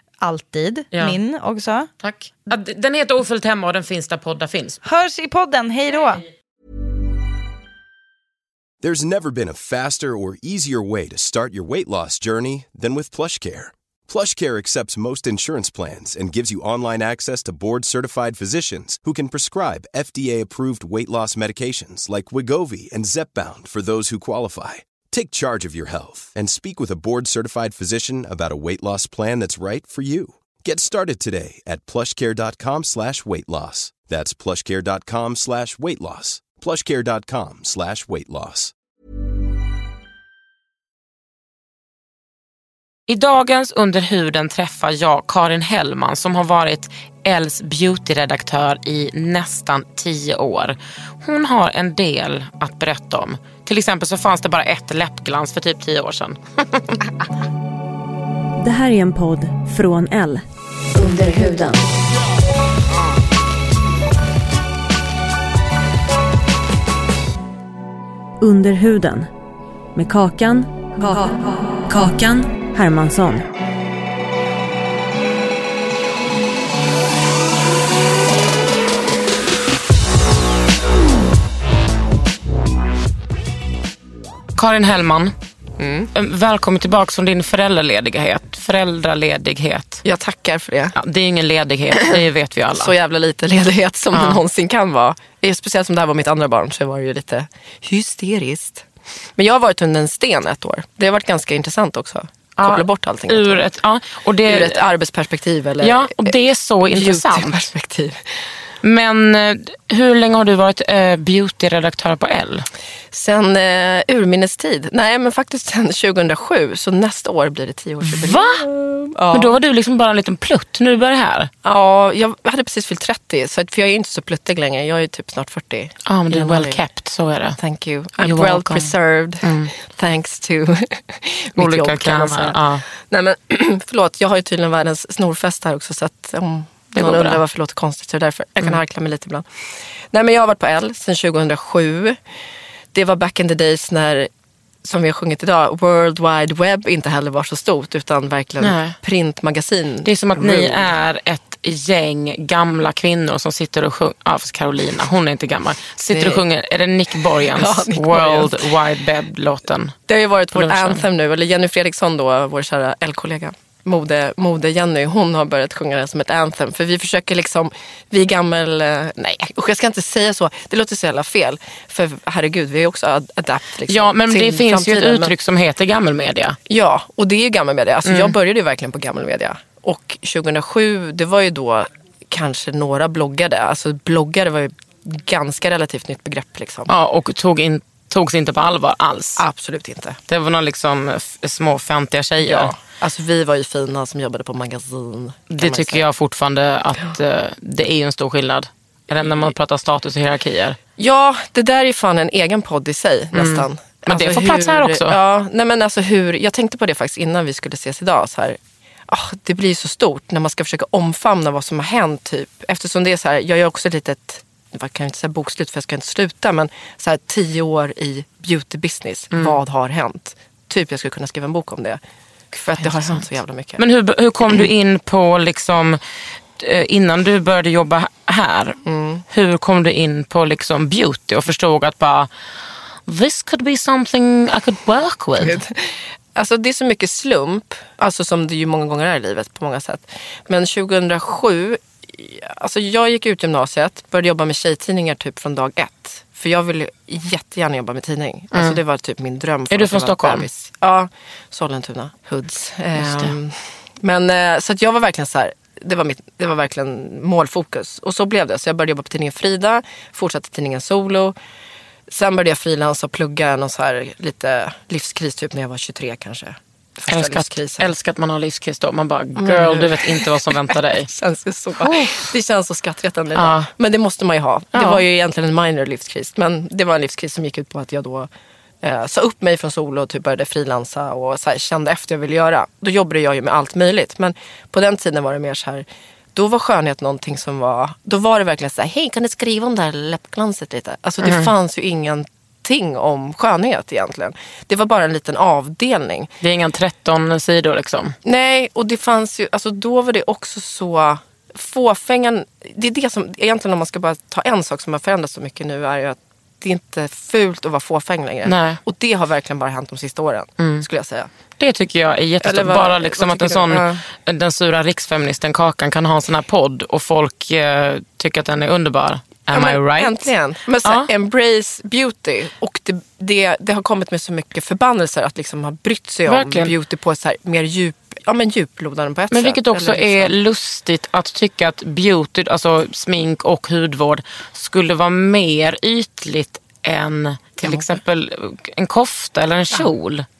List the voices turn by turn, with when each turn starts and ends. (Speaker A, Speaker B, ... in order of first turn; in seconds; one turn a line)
Speaker A: 0.2-1.9
Speaker B: 0.9-1.2
Speaker B: 2.0-4.8
Speaker A: 4.8-6.2
Speaker C: 8.8-38.7
Speaker B: 43.1-57.0
Speaker D: 58.6-60.4
Speaker D: 60.9-61.9
Speaker D: 68.4-69.3
Speaker D: 69.9-73.5
Speaker B: 84.5-85.3
Speaker E: 85.8-86.1
Speaker B: 86.1-90.0
Speaker E: 90.0-90.9
Speaker B: 90.9-92.9
Speaker E: 92.7-103.7
Speaker B: 94.1-94.4
Speaker B: 102.6-104.8
Speaker E: 104.5-106.3
Speaker B: 105.8-107.7
Speaker E: 106.9-108.3
Speaker B: 108.8-112.7
Speaker E: 113.1-119.5
Speaker B: 118.0-118.7
Speaker B: 119.3-121.5
Speaker E: 121.6-126.8
Speaker B: 126.0-127.6
Speaker E: 127.6-142.2
Speaker B: 128.2-129.7
Speaker B: 131.6-132.8
Speaker B: 136.9-137.4
Speaker E: 142.9-144.3
Speaker E: 144.8-150.9
Speaker B: 148.6-148.9
Speaker B: 150.0-159.9
Speaker E: 156.1-156.4
Speaker E: 157.2-158.7
Speaker E: 160.1-175.3
Speaker B: 160.5-161.0
Speaker B: 173.9-176.6
Speaker E: 176.7-186.9
Speaker B: 178.1-178.3
Speaker B: 186.9-189.4
Speaker E: 189.4-190.2
Speaker B: 190.3-192.7
Speaker E: 192.4-196.0
Speaker B: 195.5-200.8
Speaker E: 201.0-223.8
Speaker B: 203.3-205.2
Speaker B: 222.8-223.2
Speaker B: 223.8-226.0
Speaker B: 226.6-228.8
Speaker E: 228.8-229.2
Speaker B: 229.3-232.3
Speaker B: 233.1-235.6
Speaker E: 235.4-261.4
Speaker B: 248.5-248.8
Speaker B: 249.7-250.4
Speaker B: 252.9-253.3
Speaker E: 262.1-267.9
Speaker B: 267.1-271.1
Speaker E: 269.4-278.3
Speaker B: 271.8-272.3
Speaker B: 273.3-273.7
Speaker B: 274.7-275.0
Speaker E: 278.8-296.3
Speaker B: 291.2-291.5
Speaker B: 296.4-298.1
Speaker E: 298.2-311.3
Speaker B: 308.4-308.8
Speaker B: 310.6-310.8
Speaker B: 311.6-320.3
Speaker E: 312.4-314.0
Speaker E: 319.5-330.3
Speaker B: 326.3-326.7
Speaker B: 329.3-340.2
Speaker E: 337.6-337.9